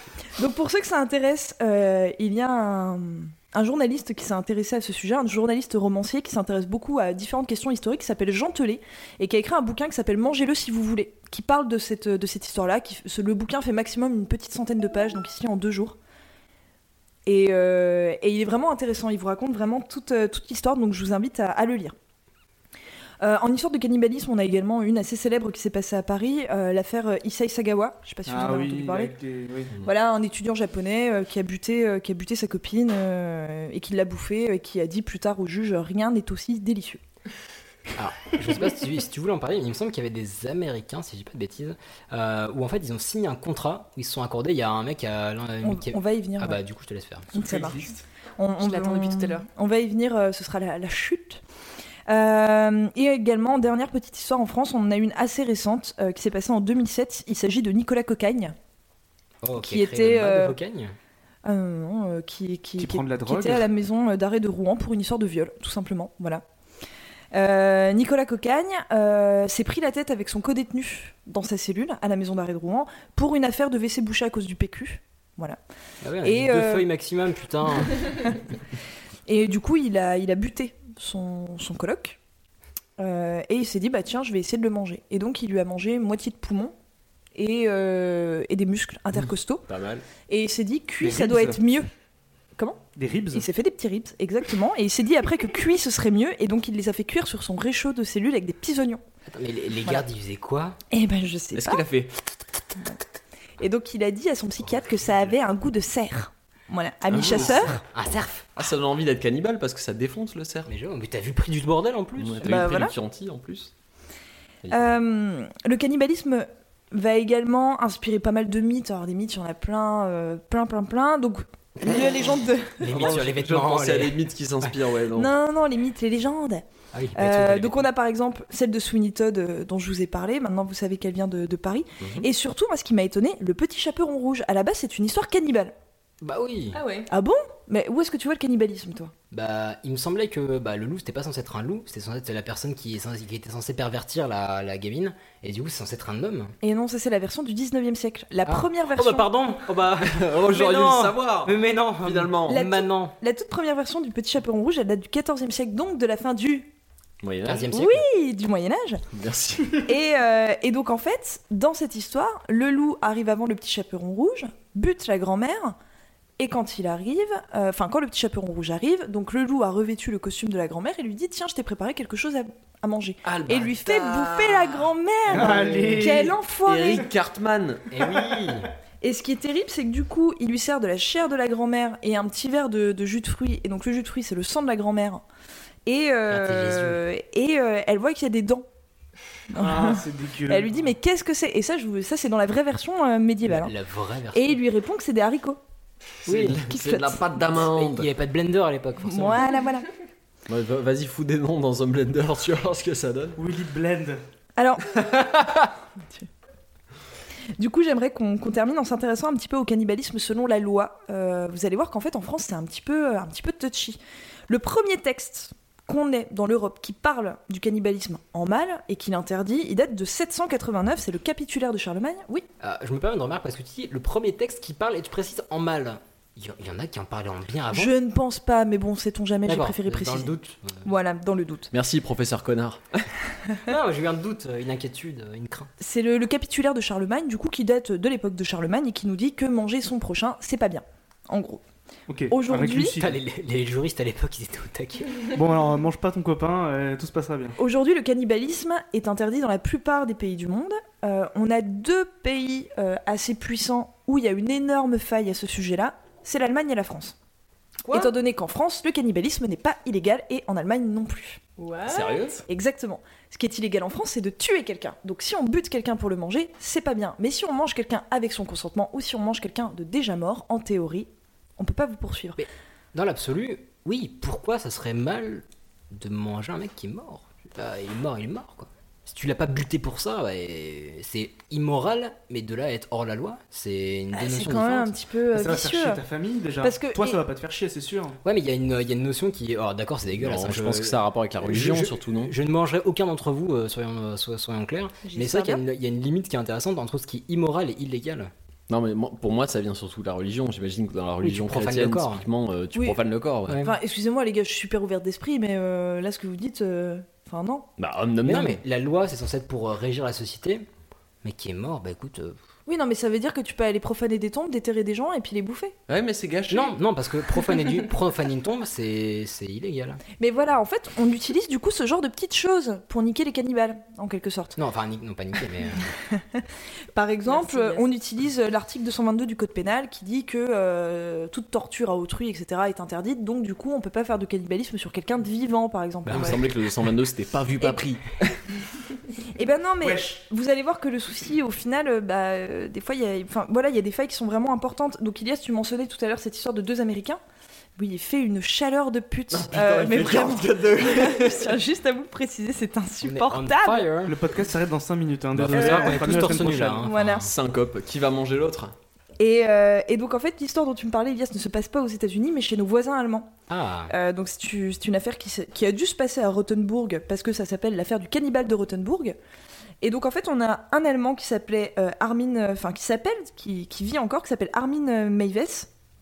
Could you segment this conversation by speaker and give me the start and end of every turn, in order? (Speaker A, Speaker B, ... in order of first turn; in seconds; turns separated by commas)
Speaker A: 0.4-16.0, Speaker A: 17.3-21.9, Speaker A: 23.2-29.1, Speaker B: 28.3-29.8, Speaker A: 29.8-37.0, Speaker C: 38.0-47.3, Speaker A: 45.6-46.6, Speaker B: 47.3-48.0, Speaker A: 47.4-47.8, Speaker A: 48.4-51.4, Speaker D: 48.6-49.5, Speaker A: 52.1-58.5, Speaker C: 59.4-60.9, Speaker A: 59.5-60.6, Speaker A: 61.5-66.4, Speaker B: 62.8-63.7, Speaker A: 67.3-75.6, Speaker C: 76.0-78.0, Speaker A: 76.2-76.9, Speaker A: 79.3-82.2, Speaker A: 83.0-86.7, Speaker A: 87.4-89.7, Speaker E: 89.7-90.0, Speaker A: 90.3-91.9, Speaker B: 91.0-91.6, Speaker A: 92.6-99.0, Speaker B: 93.0-93.5, Speaker C: 99.3-100.8, Speaker A: 100.9-101.8, Speaker E: 101.5-102.1, Speaker A: 103.6-107.8, Speaker E: 107.1-107.6, Speaker C: 107.2-108.5, Speaker E: 108.6-110.7, Speaker C: 110.7-112.5, Speaker E: 112.2-113.7, Speaker A: 112.4-112.9, Speaker E: 114.6-114.9, Speaker A: 114.7-123.2, Speaker C: 122.8-124.7, Speaker E: 122.9-125.3, Speaker A: 125.1-126.6, Speaker C: 126.9-127.9, Speaker A: 127.2-135.7, Speaker E: 132.0-132.3, Speaker C: 136.2-136.8, Speaker D: 136.7-137.1, Speaker A: 137.1-139.1, Speaker C: 139.3-146.5, Speaker A: 146.6-149.3, Speaker C: 148.4-153.2, Speaker E: 150.0-152.6, Speaker A: 152.5-156.7, Speaker E: 157.2-157.8, Speaker C: 157.5-158.0, Speaker A: 157.7-159.0, Speaker E: 159.1-159.8, Speaker A: 159.8-165.8, Speaker A: 166.4-177.1, Speaker E: 173.2-174.8, Speaker B: 175.3-176.3, Speaker E: 176.7-177.9, Speaker C: 177.9-178.7, Speaker A: 179.0-185.2, Speaker A: 185.9-188.7, Speaker C: 186.3-187.0, Speaker A: 189.5-193.7, Speaker B: 189.6-190.7, Speaker C: 193.5-194.6, Speaker A: 194.3-195.6, Speaker E: 196.2-198.1, Speaker C: 196.3-196.7, Speaker A: 196.7-197.2, Speaker C: 197.6-199.5, Speaker A: 199.0-199.9, Speaker E: 200.5-203.4, Speaker B: 203.4-204.2, Speaker A: 204.6-205.1, Speaker E: 205.1-205.7, Speaker A: 207.6-222.5, Speaker C: 222.6-227.9, Speaker A: 227.7-231.7, Speaker C: 229.5-230.8, Speaker E: 231.7-233.1, Speaker C: 233.7-235.7, Speaker A: 235.8-241.6, Speaker B: 242.1-243.1, Speaker A: 242.3-243.0, Speaker C: 243.0-245.2, Speaker B: 245.3-247.6, Speaker A: 247.6-257.1, Speaker C: 257.9-258.1, Speaker A: 257.9-261.4, Speaker D: 261.6-262.2, Speaker E: 261.9-262.4, Speaker A: 262.5-272.4, Speaker C: 272.4-284.9, Speaker A: 284.1-286.0, Speaker B: 285.3-288.2, Speaker A: 286.6-287.2, Speaker C: 288.2-298.3, Speaker E: 290.2-292.3, Speaker A: 295.1-295.6, Speaker E: 298.7-303.6, Speaker C: 301.2-302.2, Speaker A: 302.8-303.0, Speaker C: 303.5-303.7, Speaker A: 303.6-307.7, Speaker E: 307.8-308.6, Speaker C: 308.2-310.7, Speaker C: 311.2-312.4, Speaker A: 312.7-315.8, Speaker E: 315.9-316.8, Speaker C: 316.5-320.0, Speaker A: 320.2-324.6, Speaker C: 324.6-325.9, Speaker A: 326.1-326.4, Speaker A: 326.9-336.4, Speaker D: 327.3-327.9, Speaker C: 336.1-336.4, Speaker E: 336.1-338.4, Speaker A: 339.4-347.2, Speaker B: 339.8-340.2, Speaker A: 347.8-353.9, Speaker E: 349.3-351.6, Speaker C: 353.0-354.2, Speaker B: 354.1-356.9, Speaker E: 355.4-355.8, Speaker C: 355.4-357.3, Speaker A: 355.6-357.3, Speaker E: 357.0-358.7, Speaker A: 359.2-363.3, Speaker C: 363.5-363.9, Speaker A: 363.9-369.2, Speaker A: 369.8-375.7